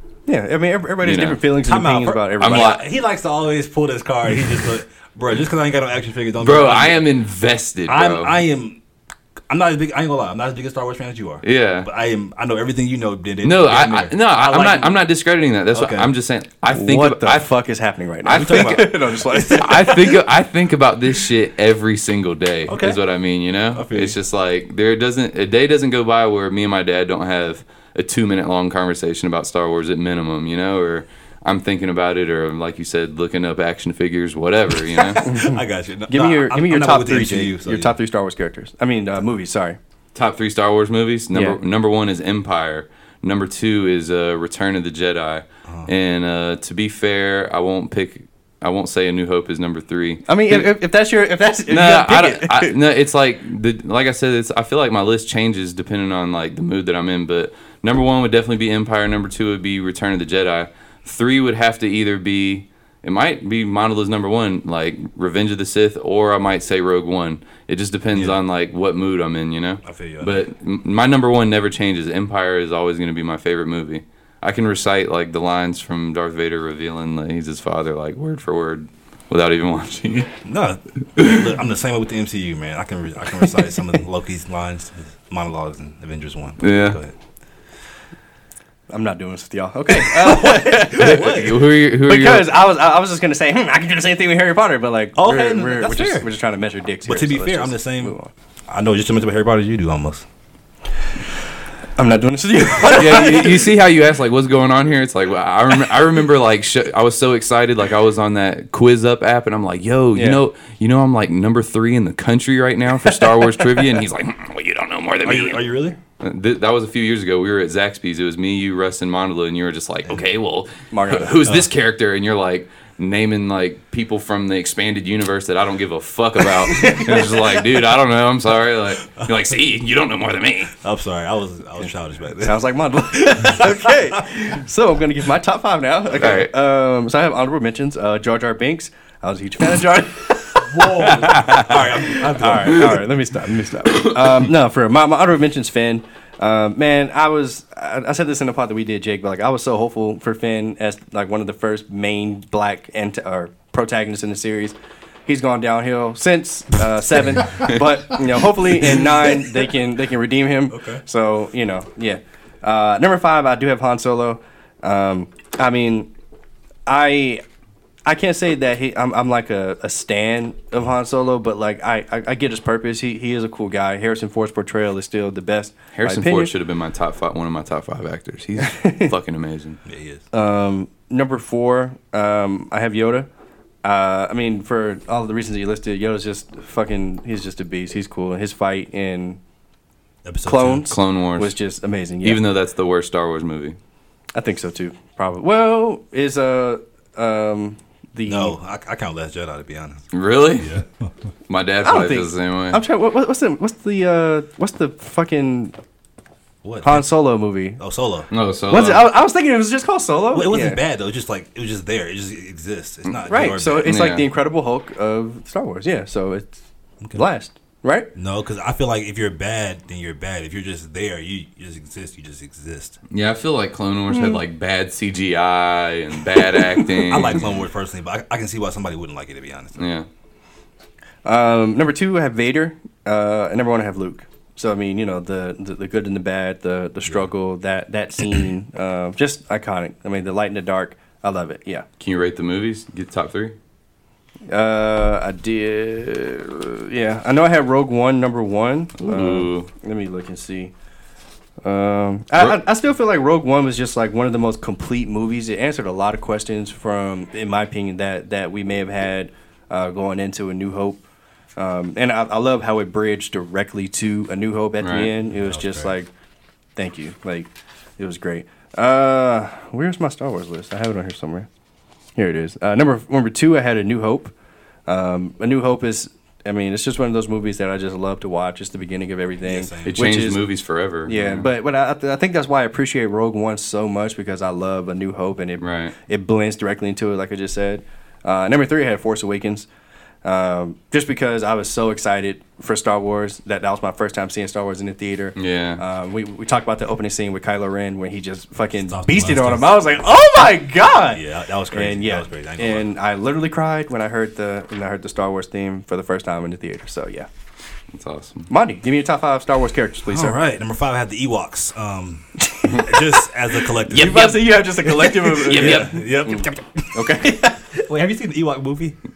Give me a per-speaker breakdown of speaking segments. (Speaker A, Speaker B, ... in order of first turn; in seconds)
Speaker A: 0.3-2.8, 16.7-20.1, 35.2-39.8, 41.3-41.6, 50.3-52.7, 88.9-91.5, 92.0-98.3, 102.0-103.6, 110.1-110.4, 120.9-121.4, 126.7-127.3, 132.4-154.7, 155.2-166.1, 166.9-167.4, 168.1-176.5, 178.6-179.1, 180.3-183.3, 183.8-189.4, 190.4-192.4, 194.3-198.5, 201.8-205.8, 206.8-207.8, 208.7-210.8, 213.3-216.6, 217.1-218.1, 224.1-224.4, 231.2-241.8, 244.5-250.7, 251.6-261.0, 261.6-266.1, 266.8-271.5, 272.1-274.3, 274.9-280.4, 281.1-289.7, 290.2-307.3, 308.5-310.4, 312.4-317.6
Speaker B: 1.0-1.4, 2.4-2.8, 6.4-8.3, 11.4-11.9, 13.4-17.5, 18.2-18.9, 19.5-35.3, 40.1-50.7, 51.7-80.3, 86.6-87.0, 90.9-92.5, 102.8-115.6, 116.2-130.7, 136.2-136.5, 141.2-141.7, 175.9-179.8, 190.9-191.6, 192.2-193.8, 200.1-200.7, 201.5-202.8, 208.3-209.1, 213.8-214.2, 223.1-227.4, 229.8-230.1, 242.0-243.6, 249.0-249.7, 264.8-265.1, 279.9-281.5, 285.6-285.9, 295.4-295.8, 307.9-308.5, 313.9-316.0
Speaker C: 1.6-7.0, 7.9-8.8, 9.5-15.0, 15.7-16.1, 18.3-20.2, 22.7-23.0, 23.7-24.2, 34.8-38.0, 45.7-45.9, 68.1-68.4, 69.8-70.5, 80.4-87.1, 90.0-91.7, 95.1-96.3, 97.0-98.1, 98.7-100.3, 115.2-116.0, 121.4-121.7, 126.8-127.2, 129.1-129.4, 130.8-134.3, 140.6-143.0, 158.6-159.7, 160.7-161.0, 179.8-180.2, 190.2-190.9, 198.2-201.1, 206.6-207.1, 207.8-208.3, 210.3-214.0, 218.1-223.0, 226.7-229.8, 265.3-265.9, 279.4-280.2, 298.8-300.0, 301.1-302.9, 310.1-319.0